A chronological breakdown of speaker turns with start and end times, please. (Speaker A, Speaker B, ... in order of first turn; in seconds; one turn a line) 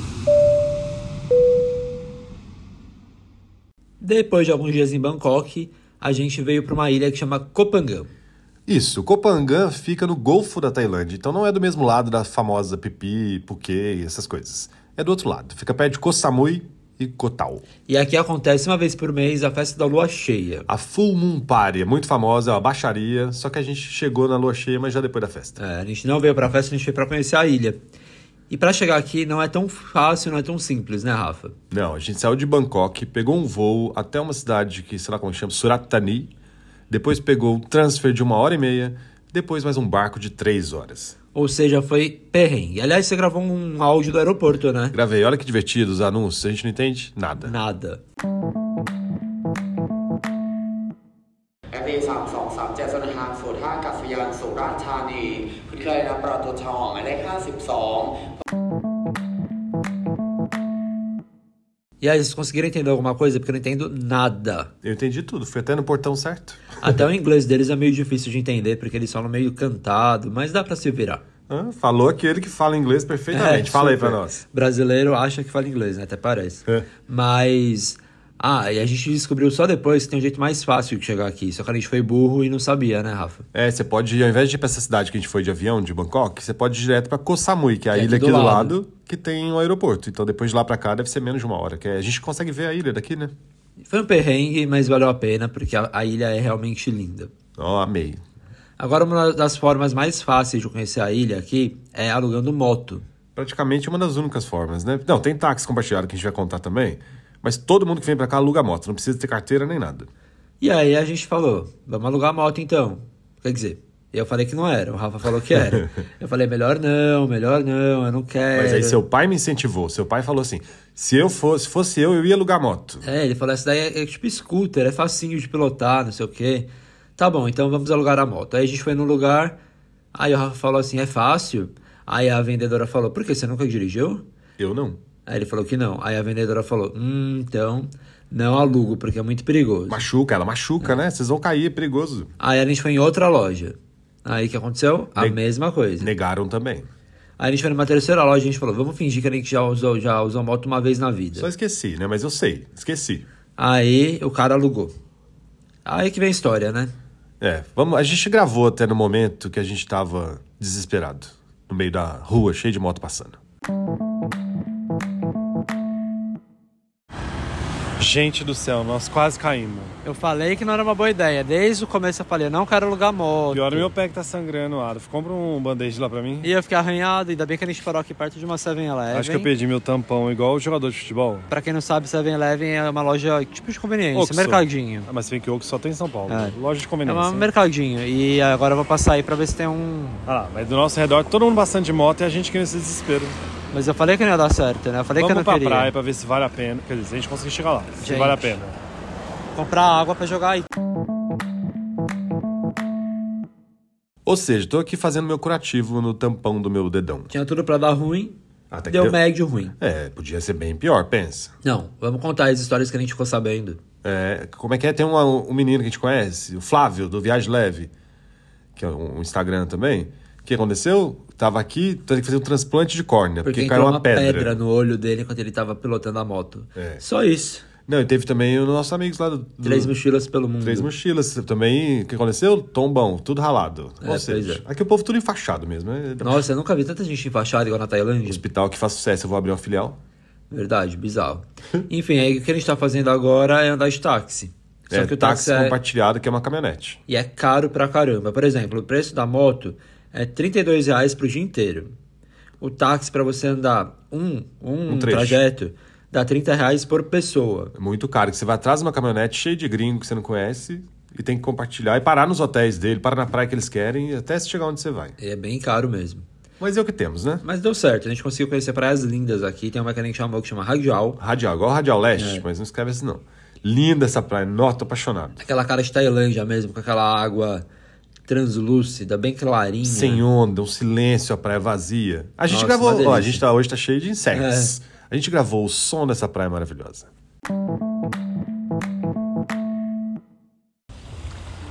Speaker A: 4.0-8.1
Speaker B: 8.7-17.6
Speaker A: 17.9-20.7
Speaker B: 20.7-25.6
Speaker A: 25.6-27.8
Speaker A: 28.5-31.6
Speaker B: 31.7-36.3
Speaker B: 36.9-41.1
Speaker A: 41.3-45.0
Speaker B: 44.9-47.5
Speaker A: 47.4-48.0
Speaker C: 51.7-58.2
Speaker A: 62.0-64.7
Speaker B: 64.8-66.7
Speaker A: 66.8-71.2
Speaker B: 71.5-74.4
Speaker A: 73.3-83.5
Speaker B: 83.5-93.3
Speaker A: 87.9-88.8
Speaker A: 93.9-97.3
Speaker B: 97.6-98.2
Speaker A: 98.8-103.0
Speaker B: 103.4-110.1
Speaker A: 110.6-119.0
Speaker B: 118.5-123.0
Speaker A: 123.0-129.6
Speaker A: 130.1-134.2
Speaker B: 134.6-135.0
Speaker A: 135.3-140.1
Speaker B: 139.9-142.3
Speaker A: 142.4-146.1
Speaker B: 146.0-146.9
Speaker A: 147.4-151.5
Speaker B: 151.4-153.3
Speaker A: 153.6-154.9
Speaker A: 155.8-156.9
Speaker B: 157.4-163.4
Speaker D: 168.0-169.9
Speaker A: 170.0-173.9
Speaker D: 173.5-176.5
Speaker A: 176.4-179.5
Speaker D: 179.1-181.5
Speaker A: 181.5-185.1
Speaker D: 184.2-187.5
Speaker A: 186.3-190.3
Speaker D: 190.3-193.4
Speaker A: 193.7-195.9
Speaker D: 195.2-198.8
Speaker A: 198.0-198.6
Speaker A: 199.5-200.7
Speaker B: 204.3-207.3
Speaker A: 207.3-209.8
Speaker B: 208.7-209.2
Speaker B: 209.8-211.5
Speaker A: 211.6-213.8
Speaker B: 214.0-217.9
Speaker B: 218.8-224.6
Speaker A: 223.4-227.7
Speaker B: 226.8-227.0
Speaker B: 227.9-229.9
Speaker A: 229.6-230.9
Speaker B: 230.6-236.5
Speaker A: 234.0-234.6
Speaker A: 236.2-238.4
Speaker B: 238.3-240.0
Speaker A: 240.5-245.8
Speaker B: 244.9-247.0
Speaker A: 247.1-251.9
Speaker A: 252.6-257.7
Speaker B: 254.9-255.4
Speaker B: 257.8-265.1
Speaker A: 265.2-266.2
Speaker B: 266.6-267.4
Speaker A: 267.4-271.2
Speaker B: 271.2-275.4
Speaker A: 272.2-272.4
Speaker A: 275.4-277.6
Speaker A: 278.3-280.2
Speaker B: 279.8-287.1
Speaker A: 282.5-283.4
Speaker A: 284.3-284.7